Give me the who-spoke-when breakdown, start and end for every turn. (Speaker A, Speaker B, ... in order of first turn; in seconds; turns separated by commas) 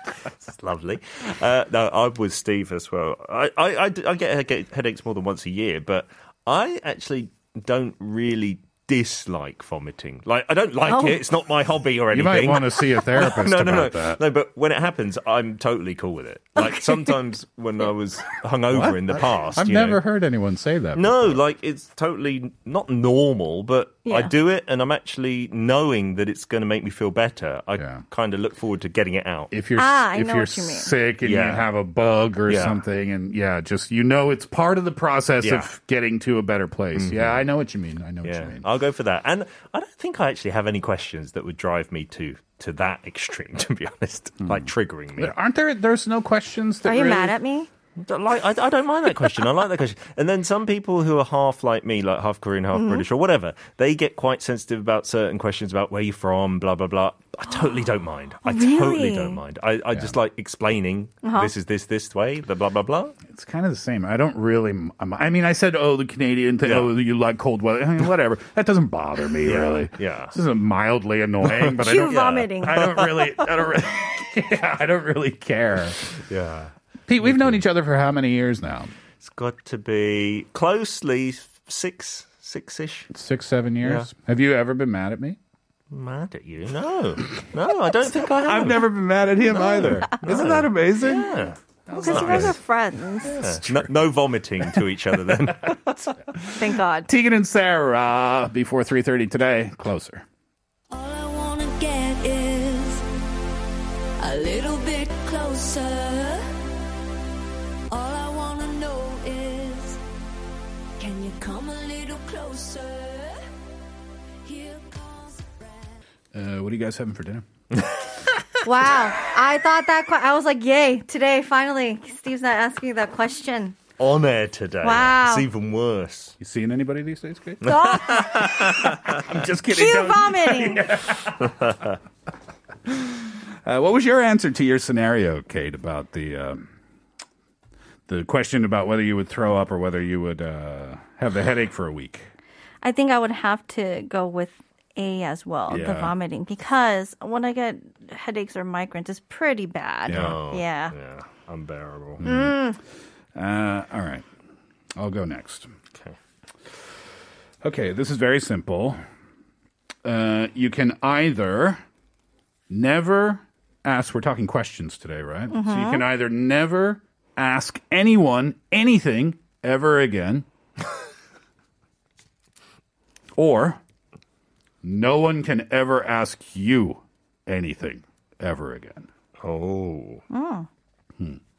Speaker A: 0.3-20.0, Speaker B: 10.8-11.2, Speaker C: 12.1-14.2, Speaker B: 16.6-17.1, Speaker C: 18.7-21.4, Speaker A: 20.9-29.5, Speaker B: 24.0-24.3, Speaker C: 27.8-28.0, Speaker C: 29.5-38.6, Speaker B: 29.7-30.9, Speaker A: 31.2-31.7, Speaker A: 32.5-32.8, Speaker A: 35.4-35.7, Speaker A: 37.0-37.5, Speaker A: 38.2-45.3, Speaker C: 44.5-47.4, Speaker B: 46.8-47.7, Speaker A: 48.0-63.1, Speaker B: 52.7-53.0, Speaker B: 58.4-59.4, Speaker B: 61.2-61.5, Speaker C: 63.3-76.1, Speaker A: 66.6-66.9, Speaker A: 69.4-70.3, Speaker A: 71.4-72.1, Speaker B: 71.7-72.8, Speaker A: 72.8-73.4, Speaker A: 76.1-77.6, Speaker C: 77.1-78.9, Speaker A: 79.2-83.1, Speaker C: 83.1-85.4, Speaker A: 83.8-84.1, Speaker A: 85.9-88.9, Speaker C: 88.1-91.3, Speaker A: 89.5-92.6, Speaker C: 91.9-92.6, Speaker B: 91.9-93.4, Speaker C: 93.2-93.9, Speaker A: 93.3-96.2, Speaker C: 95.4-95.8, Speaker C: 96.3-100.2, Speaker B: 96.5-97.1, Speaker D: 100.9-103.0, Speaker D: 104.2-106.4, Speaker D: 107.9-110.0, Speaker D: 111.0-113.4, Speaker D: 114.4-115.9, Speaker C: 116.3-117.4, Speaker A: 117.8-118.0, Speaker B: 118.6-123.8, Speaker A: 124.0-126.3, Speaker B: 124.8-125.5, Speaker C: 126.4-131.7, Speaker B: 127.6-128.3, Speaker A: 127.7-129.2, Speaker B: 129.7-130.8, Speaker C: 132.9-136.7, Speaker C: 138.1-142.2, Speaker B: 142.8-150.9, Speaker C: 145.7-146.1, Speaker C: 150.1-150.4, Speaker A: 150.1-152.2, Speaker C: 152.2-152.6, Speaker B: 152.2-152.8, Speaker C: 153.3-154.2, Speaker C: 155.0-155.7, Speaker C: 157.6-159.0, Speaker C: 160.0-161.8, Speaker C: 162.7-170.4, Speaker B: 165.5-166.0, Speaker C: 173.3-173.8, Speaker C: 174.8-179.1, Speaker A: 179.4-180.2, Speaker B: 180.3-180.7